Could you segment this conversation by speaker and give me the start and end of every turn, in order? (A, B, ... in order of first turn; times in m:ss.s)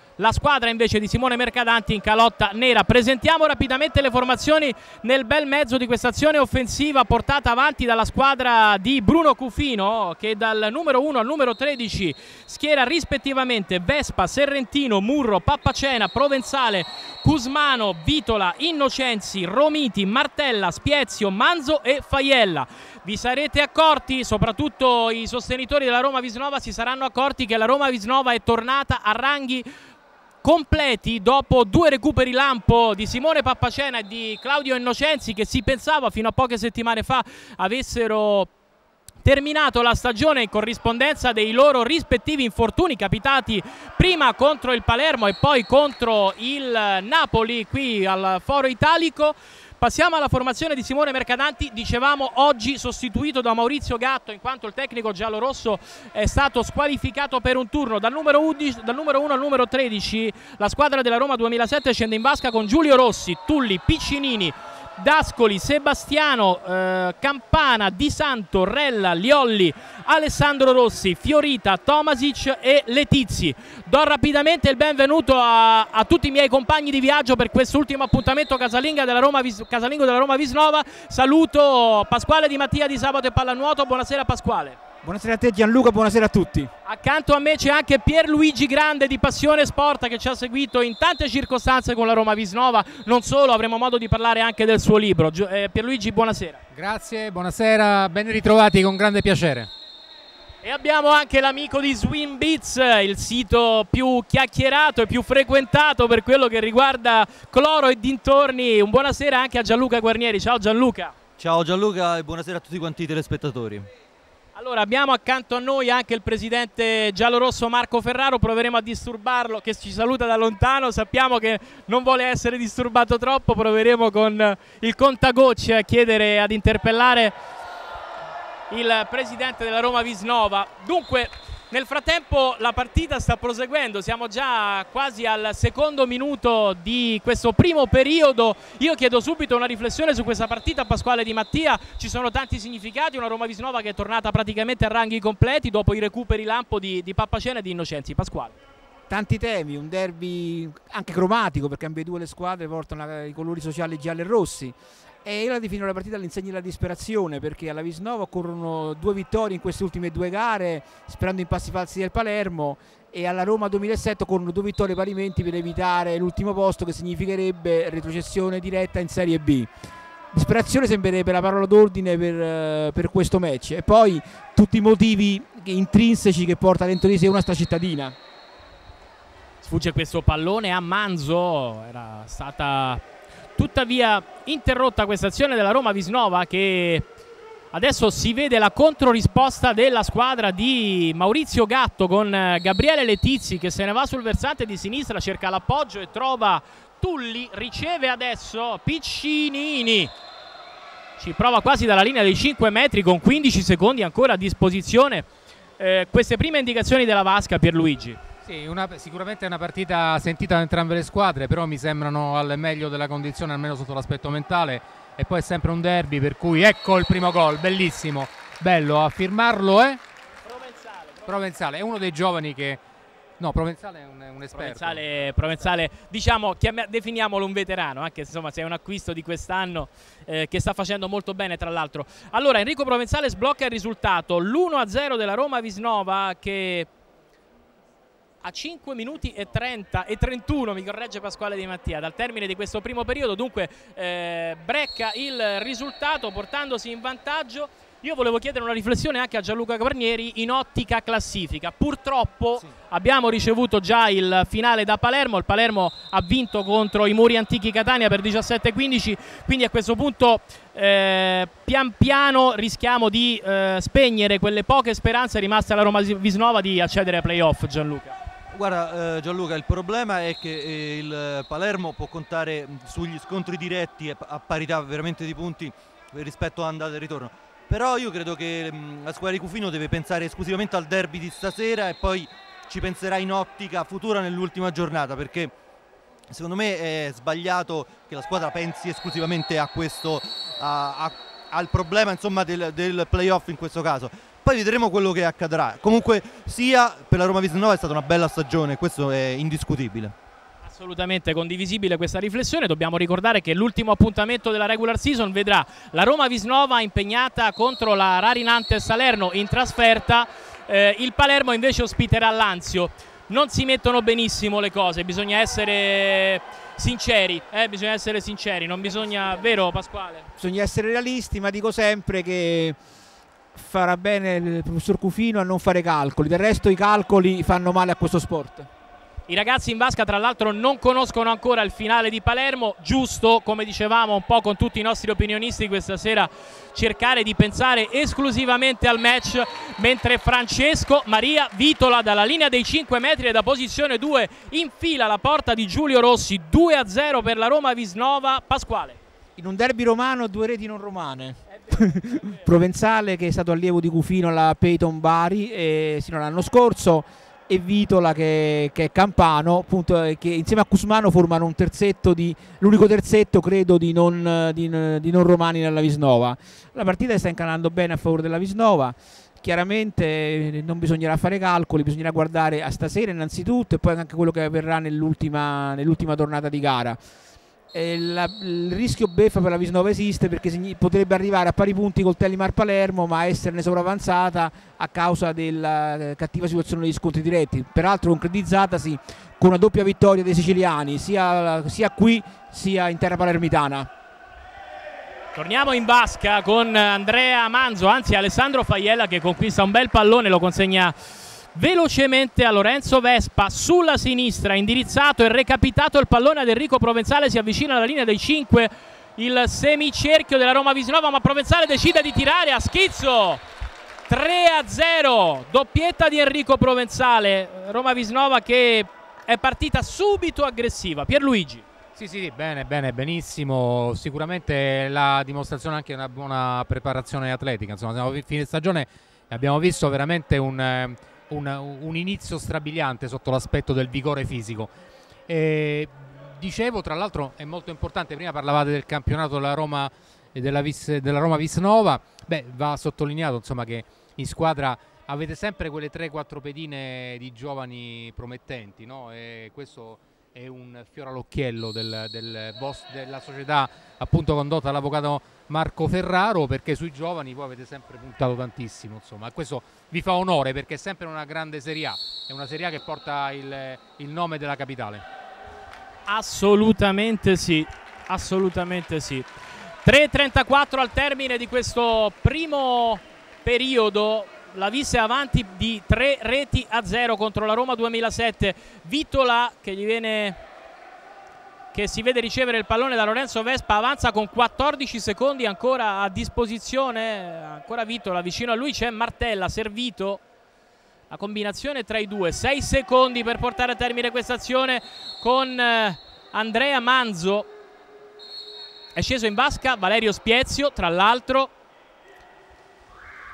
0:00.2-0:29.7 A
0:30.4-0:38.5 A
0:39.2-1:24.8 A
1:25.0-1:26.7 B
1:26.8-1:36.6 A
1:36.7-1:39.7 C
1:40.6-1:51.1 A
1:51.4-1:53.9 D
1:54.5-2:07.3 A
2:08.7-2:28.5 A
2:29.1-2:49.7 B
2:50.3-2:58.1 B
2:59.6-3:03.0 A
3:03.6-3:07.0 A
3:07.7-3:20.1 A
3:21.2-3:25.3 A
3:25.8-3:28.2 A
3:28.4-3:40.0 C
3:40.4-3:41.3 A
3:41.2-3:42.8 C
3:43.4-3:45.1 C
3:44.5-3:56.9 A
3:58.4-4:28.2 A
4:28.5-4:45.5 D
4:46.3-5:00.1 D
5:00.6-5:20.3 A
5:20.4-5:22.8 B
5:23.5-5:28.7 B
5:29.3-5:49.0 A
5:49.4-6:17.0 B
5:51.6-5:52.4 A
6:17.7-6:33.9 B
6:35.3-6:41.0 A
6:41.5-6:53.4 A
6:54.1-7:01.6 A
7:02.0-7:14.7 C
7:15.3-7:45.0 C
7:46.1-7:49.3 A
7:49.8-8:00.4 A
8:01.7-8:10.2 A
8:11.1-8:17.5 A
8:18.9-8:21.5 A